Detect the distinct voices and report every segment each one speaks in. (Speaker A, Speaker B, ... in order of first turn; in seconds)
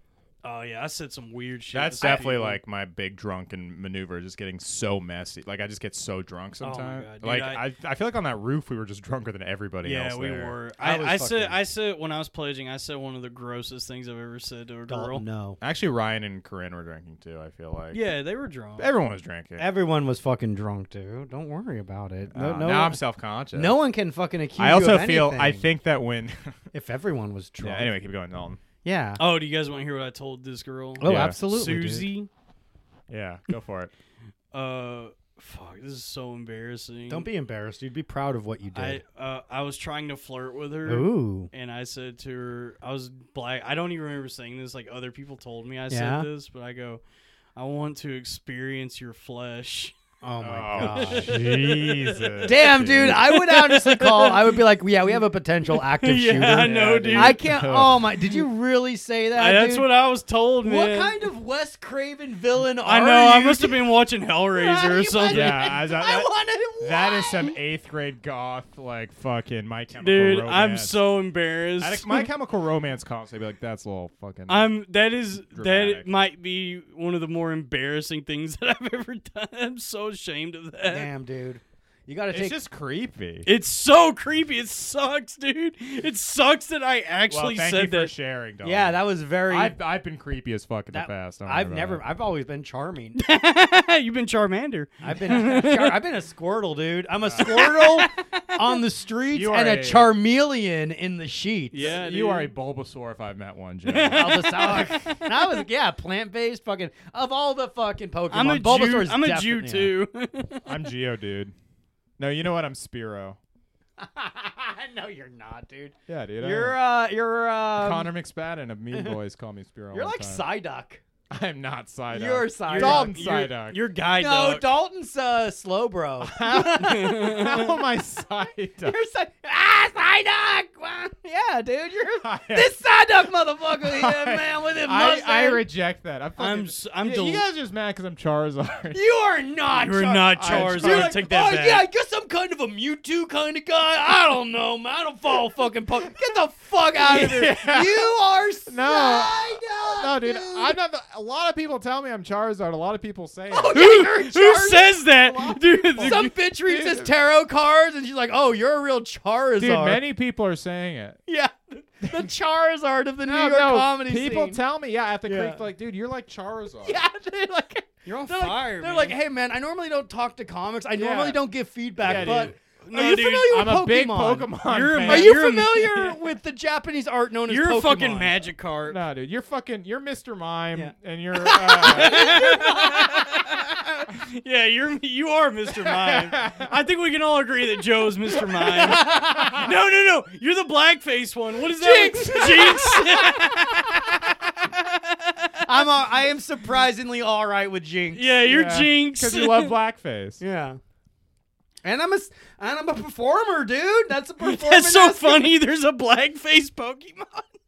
Speaker A: 0.4-2.6, 6.6-7.6, 9.8-15.2, 17.9-18.9, 29.2-32.3, 34.5-37.2, 38.7-47.0, 47.5-50.0, 50.8-54.6, 55.7-57.4, 59.3-61.2, 62.8-65.6, 69.9-72.3, 74.5-81.1, 83.5-88.1, 93.2-96.0, 97.4-98.8, 101.7-102.5, 103.9-105.6, 108.3-110.7, 122.7-124.7, 126.5-127.8, 136.4-137.4, 139.7-141.9, 153.7-156.3, 168.2-169.2, 172.9-173.7, 174.6-176.2, 177.5-179.0, 181.5-195.9, 198.1-199.7, 204.4-207.5
Speaker B: 1.7-10.5, 15.6-18.0, 18.8-19.6, 22.3-23.7, 24.6-26.6, 27.6-28.6, 31.0-31.4, 33.1-33.9, 50.4-53.2, 56.6-58.1, 65.3-71.0, 71.8-74.7, 75.5-76.1, 82.3-83.5, 87.3-92.0, 97.2-97.6, 99.3-100.1, 101.8-104.7, 110.7-111.5, 112.2-113.4, 116.1-116.8, 117.8-120.4, 121.3-123.8, 126.2-128.9, 132.2-132.8, 133.8-139.0, 140.4-141.2, 147.0-148.1, 148.7-153.8, 155.3-157.1, 159.6-161.2, 162.0-162.3, 163.2-167.0, 170.9-171.4, 172.0-172.5, 173.2-175.4, 178.9-182.4, 185.9-186.7, 191.9-194.3, 198.5-200.4
Speaker C: 2.0-2.4, 10.8-11.6, 14.9-15.6, 19.6-23.0, 23.5-25.6, 26.7-27.9, 28.8-29.2, 31.0-32.1, 37.1-39.0, 40.9-41.5, 45.9-46.3, 50.2-51.4, 52.5-59.9, 60.6-63.8, 64.5-67.5, 80.9-82.5, 88.6-89.8, 90.9-93.2, 95.0-101.8, 104.1-109.9, 114.0-118.1, 119.9-121.0, 122.1-123.5, 124.1-127.5, 128.8-135.6, 138.9-150.8, 153.5-155.0, 156.0-160.0, 161.3-164.6, 165.2-165.6, 166.8-174.5, 175.1-178.5, 181.7-183.2, 188.6-189.7, 191.8-194.2, 195.6-198.3, 200.4-200.8, 201.8-205.5